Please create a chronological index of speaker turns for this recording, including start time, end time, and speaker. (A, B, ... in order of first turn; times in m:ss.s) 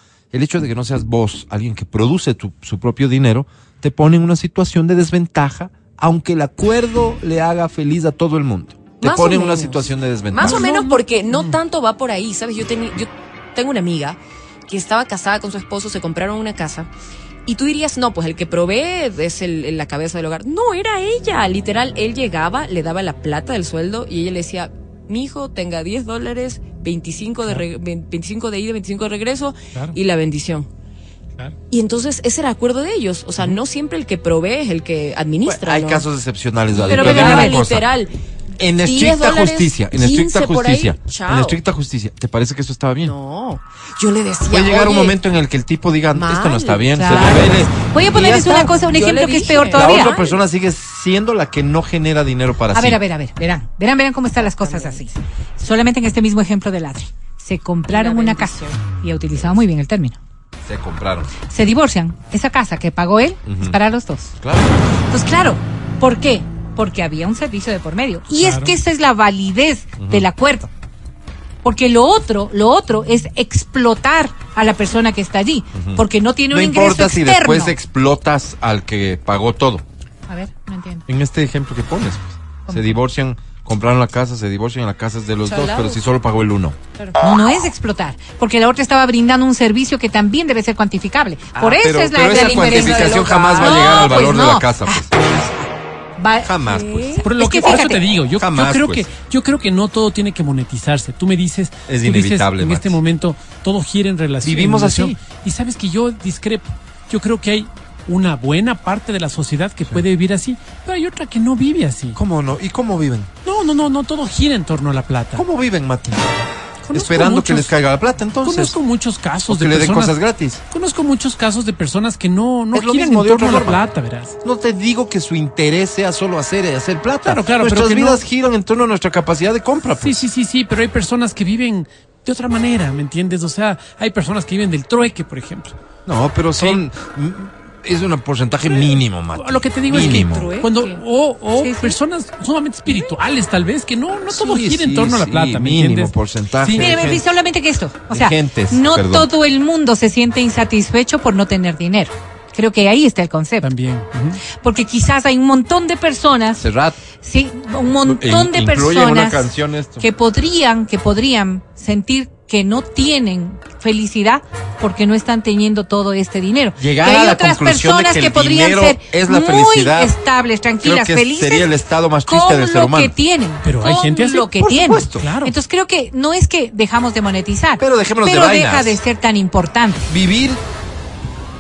0:00.3-0:10.7 A
0:09.0-0:16.9 B
0:10.4-0:11.6 C
0:17.5-0:30.7 B
0:31.7-0:36.1 B
0:35.4-0:37.8 A
0:36.7-0:38.1 B
0:36.9-0:37.6 D
0:38.6-0:43.1 A
0:38.8-0:41.6 B
0:43.0-0:45.2 B
0:44.5-0:48.8 A
0:46.1-0:47.5 B
0:47.0-0:50.2 D
0:48.2-0:50.3 B
0:49.7-0:53.0 A
0:52.7-1:00.2 D
0:54.4-0:55.0 B
0:57.9-0:58.9 B
1:00.6-1:01.3 A
1:01.4-1:04.3 D
1:03.4-1:03.8 A
1:04.4-1:05.0 A
1:05.1-1:10.7 D
1:08.4-1:08.8 C
1:10.0-1:10.3 A
1:11.6-1:17.7 D
1:15.7-1:19.8 A
1:20.3-1:21.0 D
1:21.1-1:26.8 A
1:25.5-1:26.0 B
1:27.2-1:36.5 D
1:31.5-1:35.1 A
1:32.2-1:34.3 B
1:36.4-1:37.2 A
1:36.6-1:37.2 B
1:37.2-1:38.0 D
1:37.2-1:52.2 C
1:38.4-1:39.1 A
1:41.9-1:43.0 A
1:44.4-1:45.2 A
1:52.1-1:53.3 A
1:53.4-1:55.4 C
1:55.3-1:56.3 A
1:56.9-1:57.7 C
1:56.9-1:58.8 A
1:58.4-2:00.2 C
1:59.5-2:00.6 A
2:00.7-2:04.4 C
2:02.7-2:03.8 A
2:04.4-2:10.2 A
2:07.2-2:08.2 C
2:10.0-2:15.8 C
2:16.0-2:20.5 A
2:19.3-2:26.9 C
2:20.0-2:21.0 B
2:21.5-2:22.0 D
2:24.3-2:27.2 A
2:26.7-2:33.7 D
2:28.1-2:29.3 A
2:33.6-2:34.4 C
2:34.6-2:36.6 D
2:36.6-2:37.0 A
2:37.1-2:39.5 D
2:38.0-2:40.1 A
2:40.0-2:51.7 D
2:46.8-2:50.1 A
2:50.8-2:53.1 A
2:52.3-3:00.1 D
2:53.6-2:54.5 C
2:54.6-2:55.3 A
2:55.1-2:55.6 C
2:57.8-2:59.0 A
3:00.1-3:00.6 A